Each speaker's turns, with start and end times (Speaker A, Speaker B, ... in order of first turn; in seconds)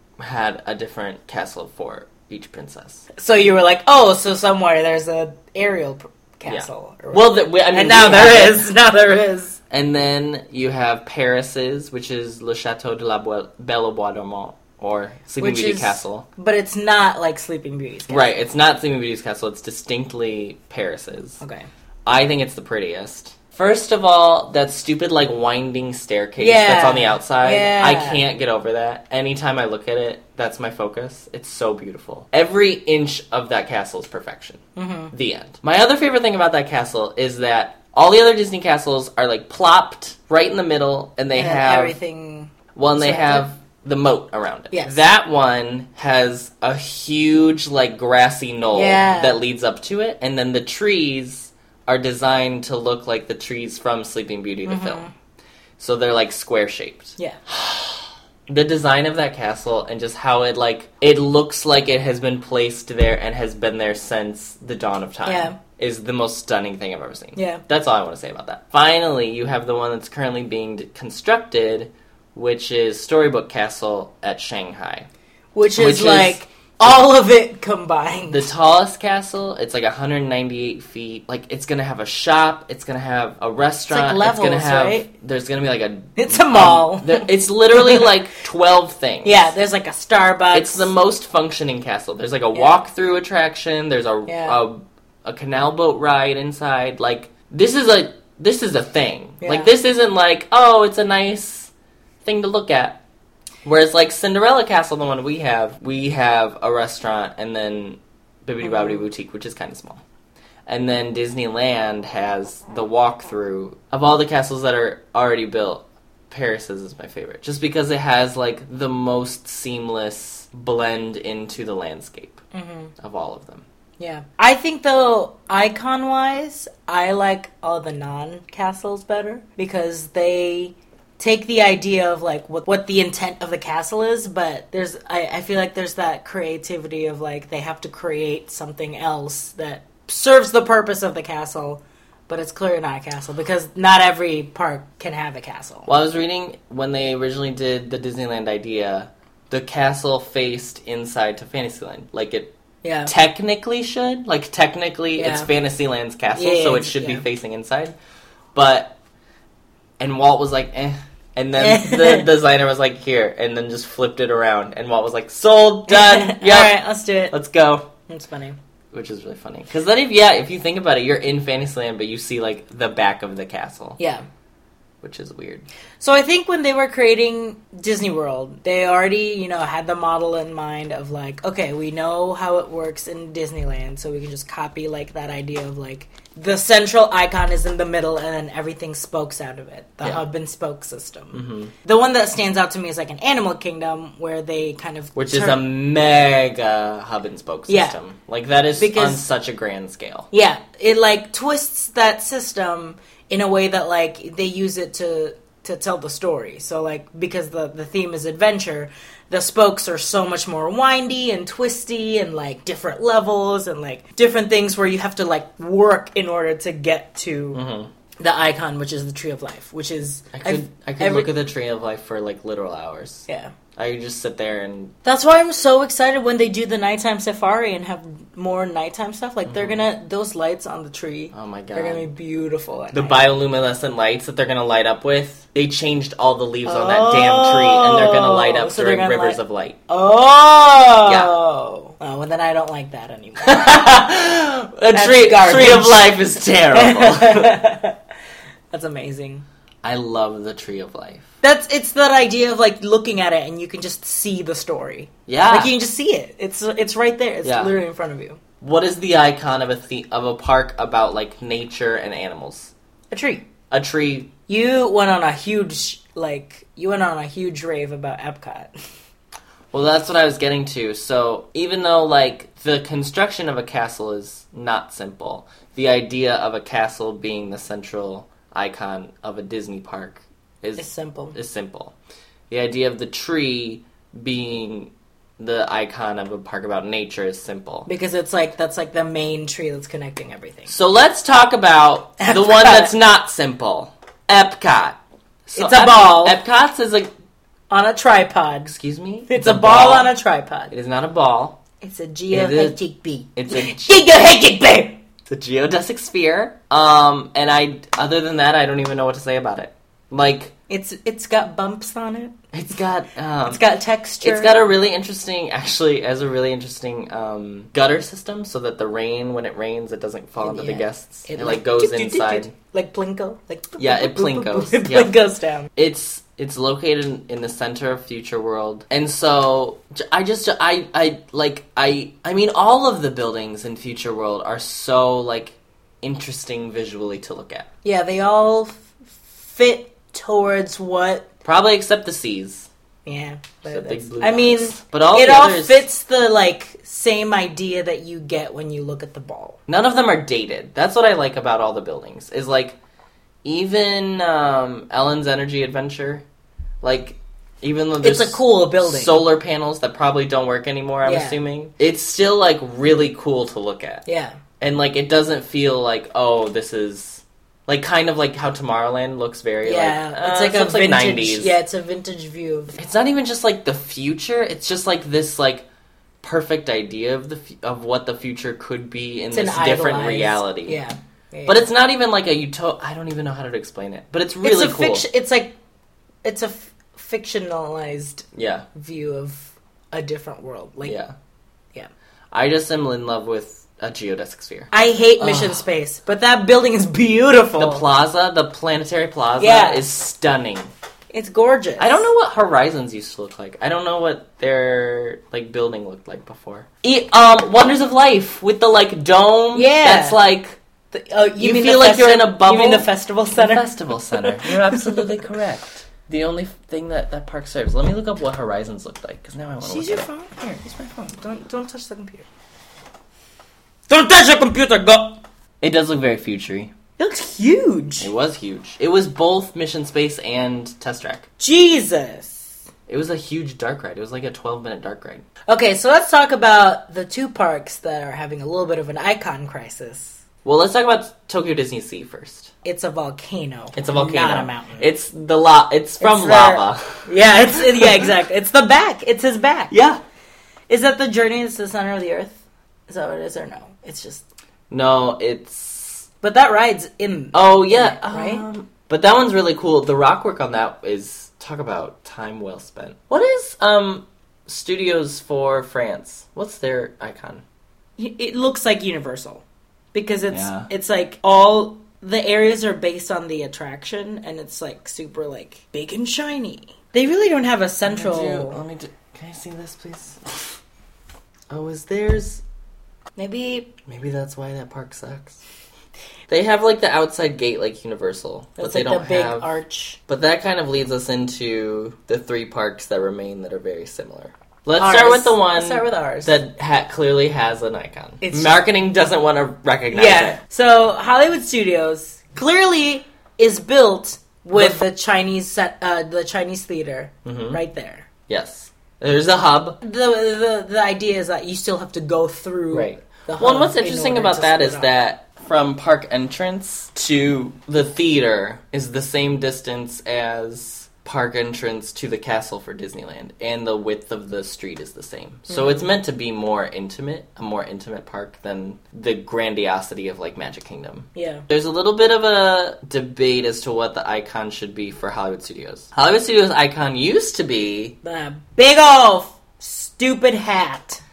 Speaker A: 0.2-3.1, 6.5-8.7, 9.7-16.3, 18.1-21.4, 22.1-42.0, 42.8-55.1, 55.8-75.1, 75.7-77.0, 78.3-89.5, 90.5-101.7, 102.2-103.0, 103.7-110.0, 110.7-122.4, 123.0-123.7, 145.9-152.5, 153.1-157.9, 158.6-158.9, 160.0-166.8, 167.3-167.9, 168.9-174.0, 175.0-175.7, 191.3-191.7, 195.2-200.3, 217.5-217.9, 220.3-224.9, 229.5-229.8, 231.3-232.1, 232.9-239.8, 241.0-241.3, 243.4-247.6, 249.8-251.3, 255.3-255.7, 257.4-257.7, 258.6-262.7, 263.7-264.3, 269.7-281.9, 282.5-287.9, 290.7-297.1, 298.7-300.1, 300.7-301.6, 302.3-302.8, 303.4-304.0, 305.3-310.5, 312.5-313.6, 314.2-322.5, 323.8-325.1, 325.8-337.7, 341.4-342.7, 343.6-345.9, 349.7-352.8, 353.4-356.2, 356.8-364.0, 364.6-371.6, 372.8-375.6, 376.2-380.8, 381.5-385.1, 388.3-388.7, 390.8-391.1, 392.3-395.6, 397.6-400.7, 401.8-410.6, 411.4-420.9, 425.6-426.7, 428.0-431.3, 432.9-435.2, 440.4-442.5, 443.8-448.1, 449.7-450.0, 454.7-456.1, 457.3-467.4, 470.3-470.7, 477.9-480.6, 481.5-482.4, 483.9-485.4, 486.3-489.5, 490.1-500.4, 504.6-504.8, 507.2-507.6, 508.3-509.8, 512.7-538.0
Speaker B: 3.1-9.6, 15.4-18.3, 21.4-21.7, 26.4-28.2, 34.8-35.1, 41.4-43.4, 44.7-45.0, 48.7-49.4, 54.6-55.1, 65.3-65.6, 67.4-67.6, 75.5-78.5, 83.9-85.1, 86.2-88.1, 89.2-90.9, 94.3-94.6, 99.4-99.7, 108.6-109.0, 122.5-122.9, 124.0-145.9, 152.8-153.1, 155.2-155.5, 156.4-157.2, 161.6-162.3, 165.9-167.3, 168.1-168.6, 174.0-174.2, 176.0-195.6, 197.7-198.0, 198.8-199.2, 200.3-217.6, 218.2-221.3, 223.3-223.5, 225.1-233.2, 236.7-244.0, 244.9-246.1, 246.7-248.0, 248.7-249.5, 251.4-258.4, 263.1-263.5, 264.5-268.7, 280.8-281.4, 287.9-290.7, 292.2-292.9, 295.6-296.4, 297.7-298.7, 299.3-300.7, 301.8-305.0, 310.7-312.4, 313.5-314.6, 320.4-325.7, 337.8-341.3, 343.1-349.6, 358.0-359.2, 361.1-361.4, 364.1-364.4, 369.6-372.8, 379.3-381.7, 384.4-385.6, 386.2-391.0, 394.7-397.8, 399.4-399.8, 401.1-402.1, 409.5-410.2, 410.9-415.1, 419.6-422.3, 423.9-425.2, 427.0-428.1, 431.4-432.6, 435.5-440.2, 442.6-444.9, 446.0-449.7, 450.7-454.2, 456.2-458.4, 468.0-478.6, 483.2-483.7, 488.6-490.0, 494.8-496.3, 498.2-498.5, 499.9-508.1, 509.8-514.9, 525.5-525.8, 531.1-531.5, 538.0-541.0